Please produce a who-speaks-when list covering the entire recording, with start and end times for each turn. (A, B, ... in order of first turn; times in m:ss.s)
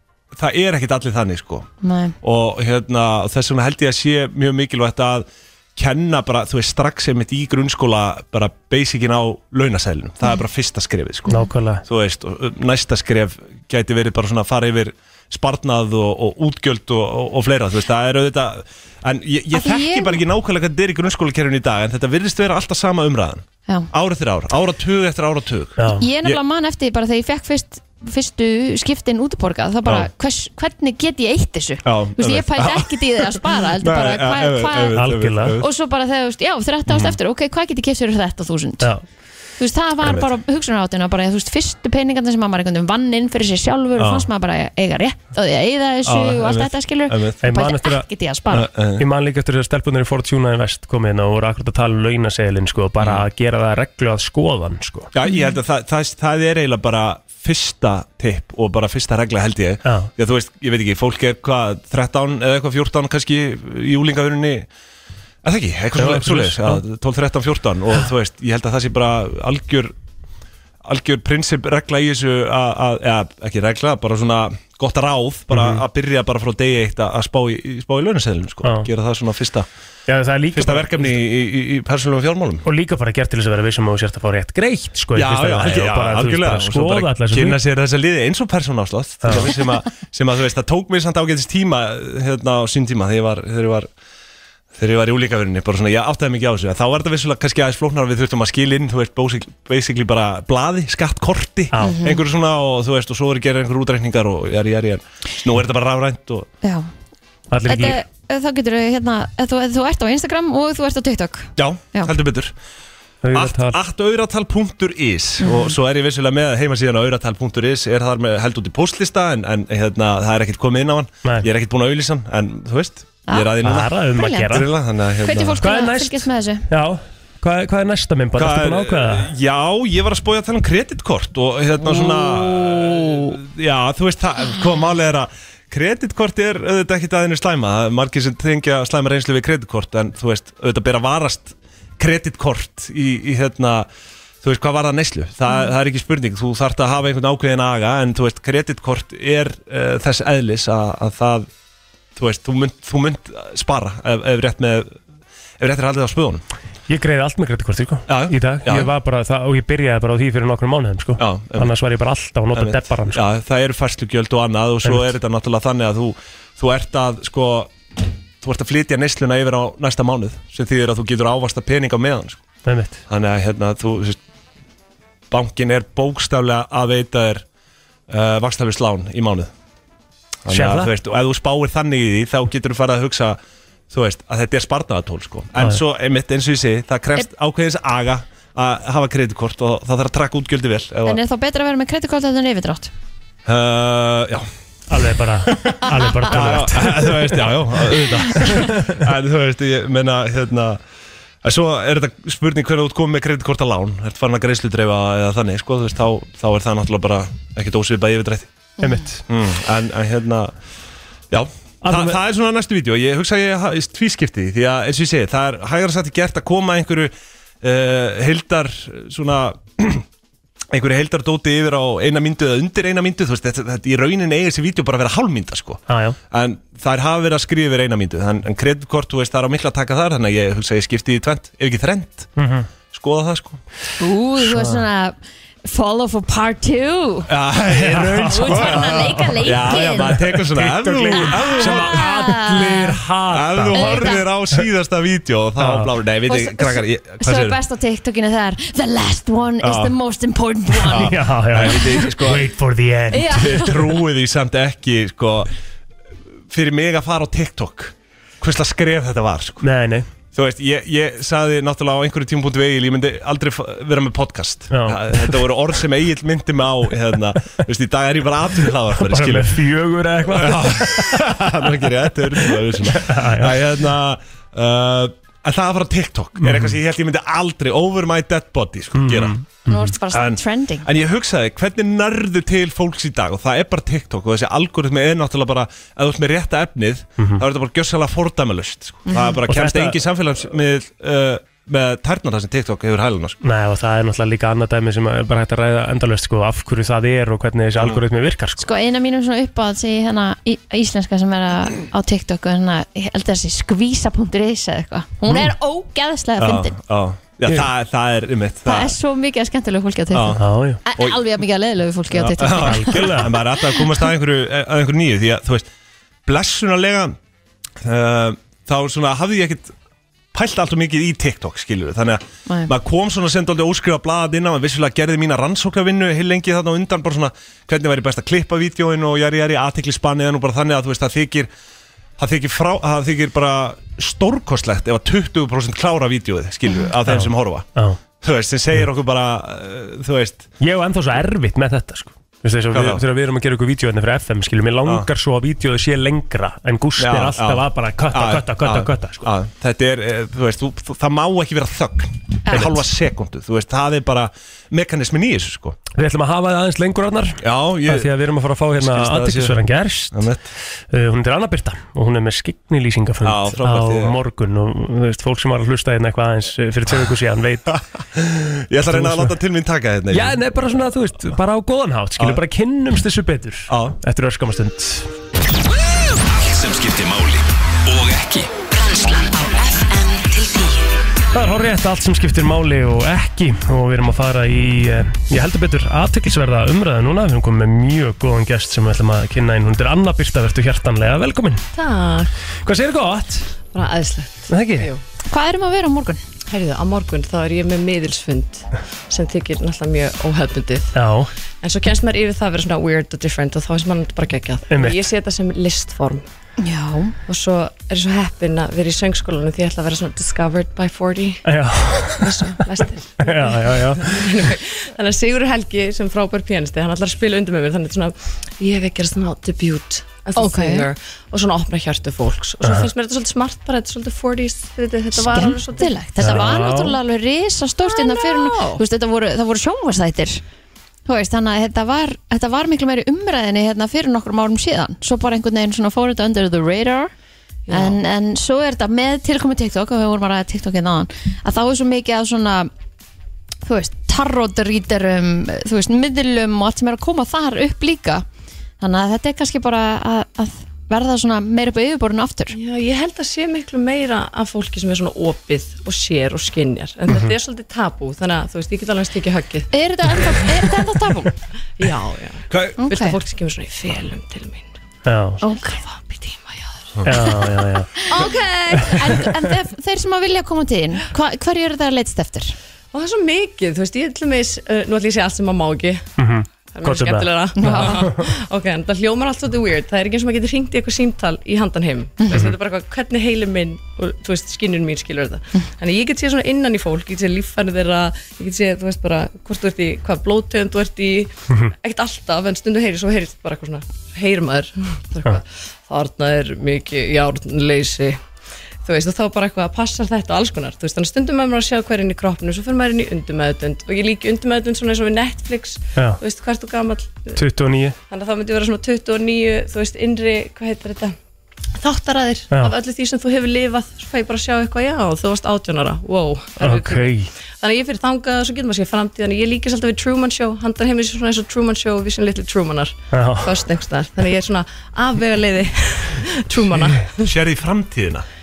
0:00.3-0:01.7 A
0:01.8-0:02.1 B
0:02.2-0:26.4 A
0:11.3-0:11.8 C
0:19.5-0:20.2 B
0:25.8-0:26.0 C
0:25.9-0:35.0 B
0:31.8-0:35.7 A
0:34.9-0:35.6 C
0:35.6-0:38.9 B
0:36.9-0:37.2 A
0:39.6-0:48.7 B
0:40.0-0:40.3 A
0:44.0-0:44.3 A
0:46.0-0:47.4 A
0:47.4-0:48.0 C
0:48.5-0:49.0 A
0:49.0-0:55.1 C
0:55.1-1:04.7 A
0:59.8-1:00.1 C
1:05.4-1:09.9 A
1:05.9-1:06.8 C
1:10.8-1:19.7 A
1:15.5-1:15.8 C
1:18.6-1:18.9 C
1:20.1-1:21.2 C
1:20.5-1:22.6 A
1:22.6-1:27.6 C
1:25.1-1:33.9 A
1:29.2-1:29.6 C
1:34.7-1:46.5 A
1:41.7-1:42.0 C
1:41.8-1:42.2 B
1:46.6-1:46.9 B
1:47.5-1:48.0 C
1:47.6-1:52.1 B
1:51.6-1:52.5 A
1:53.2-1:53.8 C
1:53.3-2:05.6 A
1:55.4-1:55.7 B
2:03.6-2:04.7 C
2:04.1-2:04.6 B
2:05.2-2:06.7 B
2:05.6-2:09.3 C
2:08.4-2:23.9 A
2:24.4-2:31.5 A
2:32.2-2:35.0 A
2:35.6-2:36.4 A
2:36.9-2:43.2 C
2:38.1-2:38.9 A
2:41.2-2:41.7 A
2:42.5-2:47.7 A
2:44.8-2:45.1 C
2:48.4-2:52.4 A
2:52.6-2:53.0 C
2:53.1-2:54.2 A
2:55.3-2:57.4 A
2:58.1-2:59.5 A
3:00.4-3:03.4 A
3:00.5-3:00.9 C
3:03.9-3:11.2 A
3:11.0-3:12.9 B
3:13.4-3:14.5 A
3:14.9-3:17.5 C
3:15.5-3:20.8 A
3:18.4-3:18.9 C
3:21.4-3:28.5 A
3:28.8-3:29.2 C
3:29.3-3:30.5 A
3:31.3-3:40.0 A
3:31.8-3:32.2 C
3:40.7-3:52.3 A
3:45.9-3:46.2 C
3:52.4-3:52.7 C
3:52.9-3:53.6 A
3:54.0-3:57.3 B
3:57.3-4:02.4 A
3:57.7-4:04.2 C
3:58.2-4:00.4 B
4:01.1-4:03.0 B
4:03.3-4:07.6 A
4:03.7-4:04.2 B
4:05.6-4:05.9 C
4:06.2-4:11.2 B
4:09.6-4:09.9 A
4:10.8-4:12.5 A
4:10.9-4:13.8 C
4:13.1-4:13.7 B
4:13.4-4:15.5 A
4:16.5-4:19.6 A
4:19.6-4:20.1 C
4:20.3-4:29.6 A
4:24.7-4:25.4 C
4:28.9-4:31.7 C
4:30.2-4:39.4 A
4:32.4-4:33.7 C
4:36.4-4:36.8 C
4:38.9-4:39.9 C
4:39.6-4:40.9 B
4:40.1-4:53.4 A
4:47.2-4:47.4 C
4:49.5-4:50.0 C
4:53.4-4:58.7 C
4:58.6-5:06.8 B
5:06.4-5:08.9 A
5:08.6-5:13.4 B
5:10.1-5:11.2 A
5:10.4-5:10.8 C
5:12.1-5:15.7 A
5:12.4-5:13.4 C
5:16.2-5:17.2 A
5:17.8-5:19.7 A
5:20.3-5:31.5 A
5:32.2-5:37.7 A
5:37.0-5:38.0 C
5:38.2-5:40.5 A
5:40.6-5:49.3 C
5:42.7-5:43.0 A
5:47.0-5:55.8 A
5:52.5-5:52.8 C
5:55.9-6:00.3 C
5:57.4-5:58.1 A
5:58.8-5:59.6 A
6:00.1-6:00.4 A
6:00.9-6:07.8 C
6:03.2-6:04.1 A
6:08.2-6:10.4 A
6:08.8-6:09.4 C
6:10.1-6:15.1 C
6:13.7-6:14.0 A
6:16.1-6:18.5 D
6:18.8-6:20.8 E
6:21.3-6:31.7 C
6:31.7-6:32.3 F
6:32.6-6:33.5 C
6:33.7-6:35.0 F
6:34.5-6:34.9 C
6:35.3-6:36.2 B
6:36.5-6:41.0 F
6:40.9-6:41.3 C
6:41.6-6:46.2 F
6:44.7-6:45.0 C
6:46.6-6:47.2 B
6:47.2-6:51.4 F
6:51.4-6:52.6 C
6:52.1-7:06.4 F
6:53.2-6:54.4 C
7:00.4-7:00.8 B
7:02.6-7:02.9 C
7:05.1-7:10.4 B
7:06.2-7:07.0 C
7:07.8-7:08.8 F
7:11.0-7:17.1 B
7:17.7-7:18.0 F
7:17.7-7:22.7 B
7:23.6-7:28.2 B
7:28.8-7:32.6 B
7:32.5-7:40.6 F
7:39.7-7:41.3 B
7:41.8-7:44.7 F
7:42.5-7:42.8 A
7:42.8-7:43.2 B
7:45.0-7:45.4 C
7:45.4-7:45.8 B
7:45.4-7:46.9 F
7:47.0-7:48.0 C
7:48.0-7:52.5 B
7:48.1-7:49.3 F
7:52.9-7:56.1 F
7:56.2-7:58.3 C
7:56.7-8:18.2 F
7:57.6-7:57.9 B
8:18.8-8:27.4 F
8:25.9-8:26.2 C
8:27.3-8:28.0 C
8:28.1-8:31.1 F
8:31.8-8:47.3 F
8:36.6-8:37.3 C
8:43.1-8:43.6 C
8:47.2-8:48.2 A